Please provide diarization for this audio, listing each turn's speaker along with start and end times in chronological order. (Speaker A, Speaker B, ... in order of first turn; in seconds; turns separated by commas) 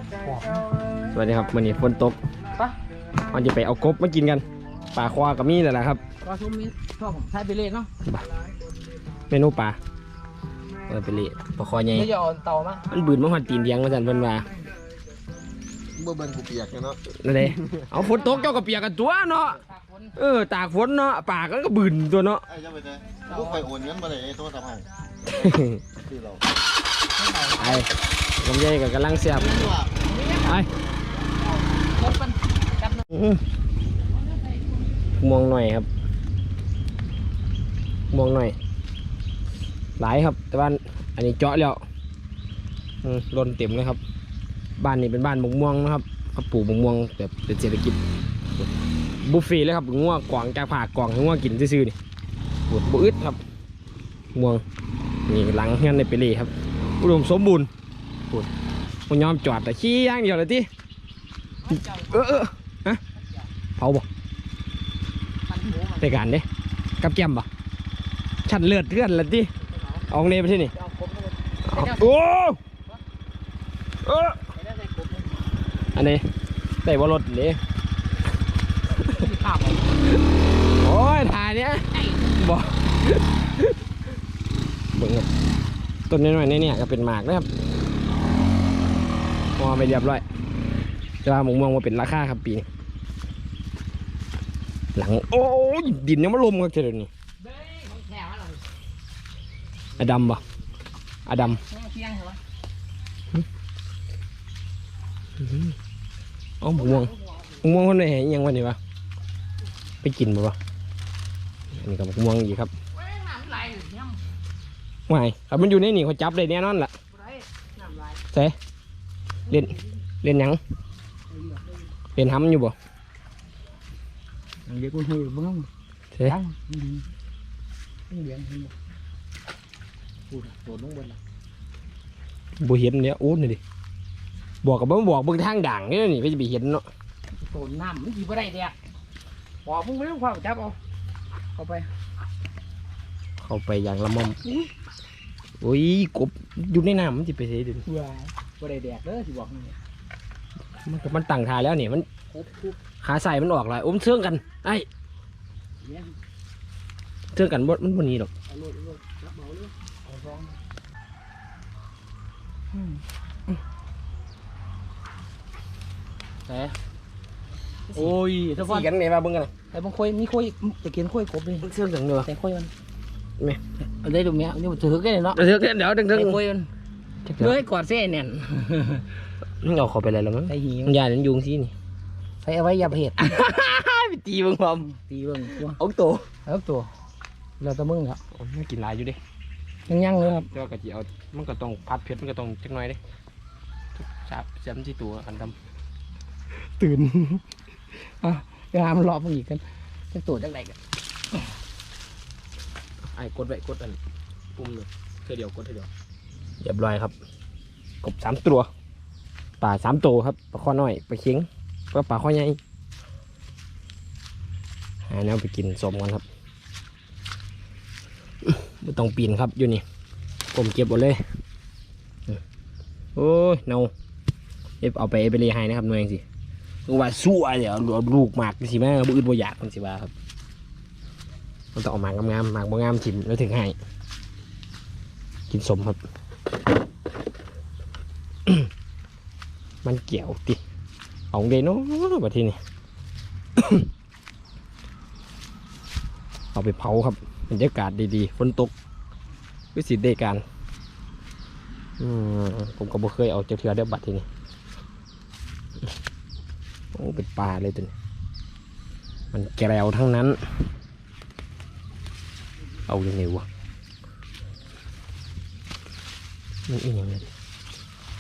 Speaker A: 0.2-0.6, Speaker B: 1.1-2.2, Speaker B: 3.3-6.0, Speaker A: 6.2-7.9, Speaker B: 9.3-9.8, Speaker B: 10.9-12.1, Speaker A: 11.9-12.8, Speaker B: 12.9-14.5, Speaker C: 16.0-17.0, Speaker B: 17.1-19.6, Speaker A: 18.0-18.6, Speaker A: 19.5-20.1, Speaker B: 20.1-22.4, Speaker C: 22.6-24.8, Speaker A: 23.2-23.7, Speaker B: 25.2-25.9, Speaker A: 27.1-27.9, Speaker B: 27.6-29.6, Speaker A: 29.9-30.6, Speaker B: 30.4-30.7, Speaker A: 31.3-33.0, Speaker B: 33.1-33.4, Speaker B: 35.2-35.9, Speaker B: 38.1-38.5, Speaker B: 40.0-41.8, Speaker B: 43.0-44.0, Speaker B: 44.8-48.0, Speaker B: 49.2-52.0, Speaker B: 52.7-53.4, Speaker B: 54.3-54.6, Speaker B: 55.3-57.7, Speaker B: 59.1-60.7, Speaker A: 61.6-62.4, Speaker B: 61.7-63.0, Speaker A: 63.2-63.4, Speaker B: 63.8-64.0, Speaker A: 65.5-66.1, Speaker B: 66.0-66.5, Speaker B: 67.0-67.5, Speaker B: 68.4-69.5, Speaker A: 69.7-70.0, Speaker B: 70.1-70.7, Speaker A: 70.7-72.2, Speaker B: 71.7-72.6, Speaker B: 74.0-74.4, Speaker A: 74.5-75.5, Speaker B: 75.9-76.3, Speaker B: 76.8-77.6, Speaker A: 79.0-80.1, Speaker B: 80.7-83.8, Speaker B: 84.9-85.3, Speaker B: 86.1-87.5, Speaker B: 89.6-90.2, Speaker B: 91.2-92.7, Speaker B: 94.9-97.1, Speaker A: 97.4-98.6, Speaker B: 100.0-100.4, Speaker B: 101.2-101.6, Speaker A: 101.5-102.4, Speaker B: 105.4-105.7, Speaker B: 106.6-108.8, Speaker A: 106.8-107.5, Speaker B: 110.0-110.6, Speaker B: 111.7-112.7, Speaker A: 112.9-114.2, Speaker B: 115.1-116.9, Speaker A: 117.1-118.2, Speaker B: 119.5-120.6, Speaker A: 121.3-121.8, Speaker B: 122.2-122.7, Speaker A: 124.7-125.7, Speaker A: 126.2-127.0, Speaker A: 128.1-128.7, Speaker A: 130.3-131.2, Speaker B: 132.6-133.6, Speaker B: 134.6-136.8, Speaker A: 137.4-138.7, Speaker A: 139.6-140.8, Speaker A: 141.5-141.9, Speaker B: 143.4-144.4, Speaker B: 145.6-147.8, Speaker A: 147.8-149.8, Speaker B: 150.8-152.1, Speaker A: 152.3-152.8, Speaker B: 153.0-154.9, Speaker A: 155.8-156.1, Speaker B: 157.3-158.3, Speaker A: 158.5-160.6, Speaker A: 162.7-163.0, Speaker A: 166.4-166.8, Speaker A: 167.9-168.9, Speaker B: 167.9-169.5, Speaker A: 169.7-171.7, Speaker B: 171.6-172.3, Speaker A: 172.2-172.7, Speaker A: 174.0-175.5, Speaker B: 175.3-176.4, Speaker A: 176.1-176.7, Speaker B: 177.2-177.6, Speaker A: 177.4-179.1, Speaker B: 179.6-181.7, Speaker A: 180.5-180.9, Speaker A: 182.4-183.4, Speaker B: 183.2-184.8, Speaker A: 184.8-185.8, Speaker B: 185.8-186.3, Speaker A: 186.4-186.9, Speaker A: 187.6-188.2, Speaker B: 188.3-189.2, Speaker A: 189.9-190.5, Speaker B: 190.5-193.0, Speaker B: 194.0-195.6, Speaker A: 196.5-197.4, Speaker A: 197.9-200.8, Speaker B: 203.0-204.0, Speaker B: 204.5-205.9, Speaker B: 206.6-207.1, Speaker B: 208.0-208.7, Speaker B: 209.6-212.6, Speaker B: 215.1-216.2, Speaker B: 218.4-219.8, Speaker B: 220.5-221.2, Speaker B: 223.1-223.9, Speaker B: 224.8-226.2, Speaker B: 226.9-230.1, Speaker B: 231.7-233.8, Speaker B: 235.5-236.0, Speaker B: 239.8-240.6, Speaker B: 241.3-242.6, Speaker B: 243.6-243.9, Speaker B: 246.5-248.7, Speaker B: 249.7-250.4, Speaker B: 252.0-254.2, Speaker B: 256.9-257.9, Speaker B: 259.3-260.6, Speaker B: 262.9-263.4, Speaker B: 266.7-267.3